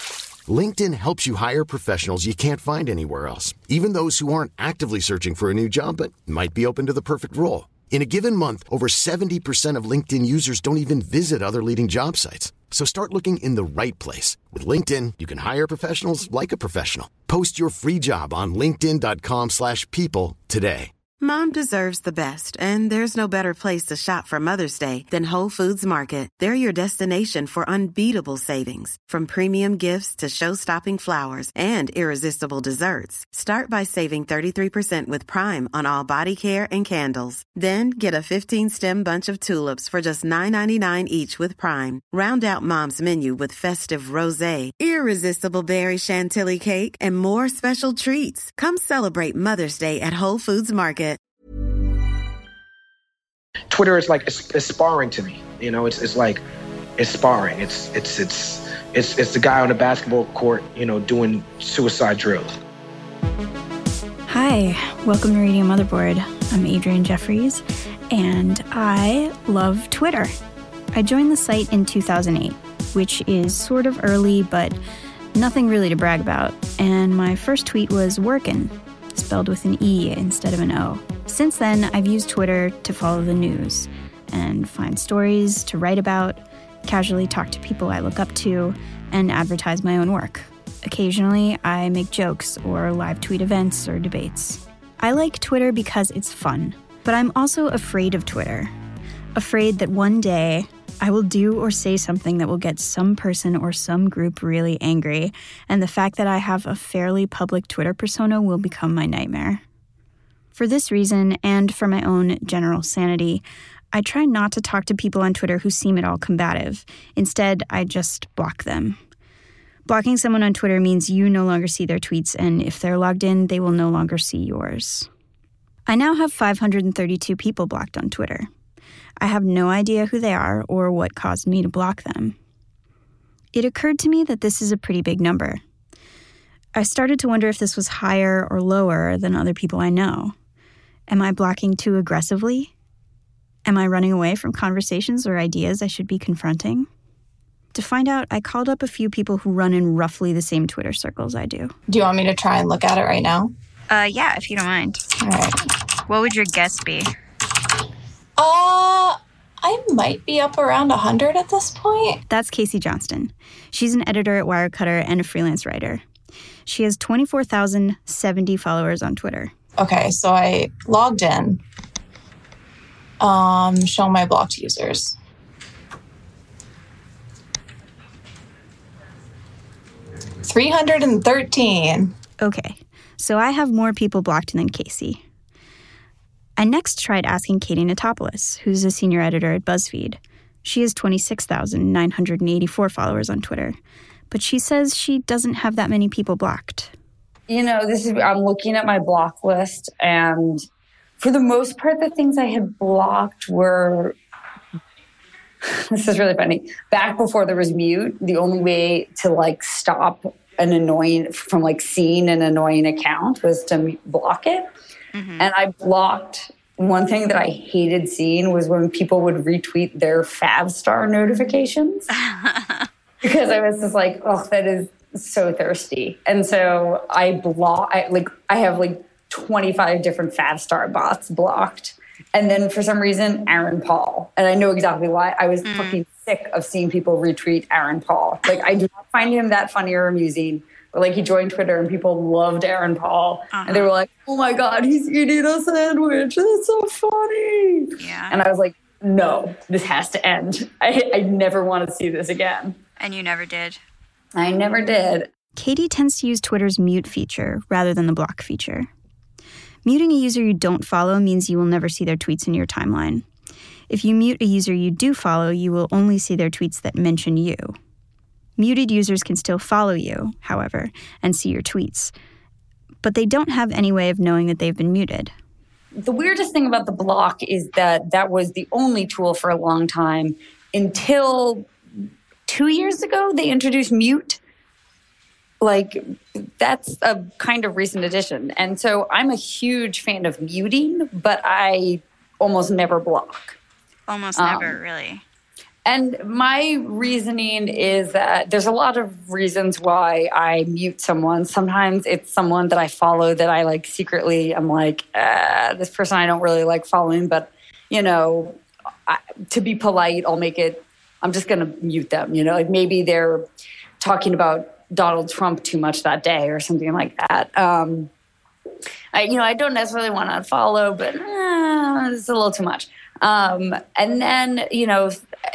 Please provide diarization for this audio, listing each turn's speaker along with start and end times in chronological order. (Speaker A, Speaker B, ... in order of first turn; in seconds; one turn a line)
Speaker A: 0.5-20.9
Speaker B: 21.2-51.2
Speaker C: 53.7-56.4
Speaker C: 57.0-62.6
Speaker D: 64.3-70.3
Speaker D: 70.9-74.8
Speaker D: 75.3-98.7
Speaker D: 99.3-109.6
Speaker D: 110.5-119.0
Speaker D: 119.9-125.1
Speaker D: 125.9-128.5
Speaker D: 129.2-132.3
Speaker D: 133.5-135.6
Speaker D: 136.8-140.3
Speaker D: 141.1-142.7
Speaker D: 143.7-146.9
Speaker D: 147.7-151.7
Speaker E: 151.9-153.5
Speaker D: 153.9-155.0
Speaker E: 155.2-155.6
Speaker D: 156.1-157.1
Speaker E: 158.4-162.2
Speaker D: 162.3-166.0
Speaker D: 166.7-169.5
Speaker E: 169.8-171.6
Speaker E: 173.2-175.2
Speaker E: 180.4-182.1
Speaker D: 182.4-185.2
Speaker D: 186.6-193.8
Speaker D: 194.3-196.9
Speaker F: 197.5-200.7
Speaker F: 201.2-204.2
Speaker F: 205.6-214.7
Speaker D: 215.1-215.5
Speaker F: 215.4-222.1
Speaker D: 222.1-222.9
Speaker F: 223.2-252.8
Speaker D: 235.6-236.0
Speaker D: 243.5-243.9
Speaker D: 248.0-248.4
Speaker D: 253.0-253.8
Speaker F: 254.3-255.3
Speaker D: 255.6-258.9
Speaker D: 259.8-263.2
Speaker D: 263.9-267.8
Speaker D: 268.6-272.1
Speaker D: 273.0-275.3
Speaker F: 276.0-281.7
Speaker F: 282.5-284.4
Speaker F: 285.6-293.6
Speaker D: 294.1-295.2
Speaker F: 294.4-294.8
Speaker F: 295.9-313.4
Speaker F: 314.0-318.1
Speaker F: 319.1-325.2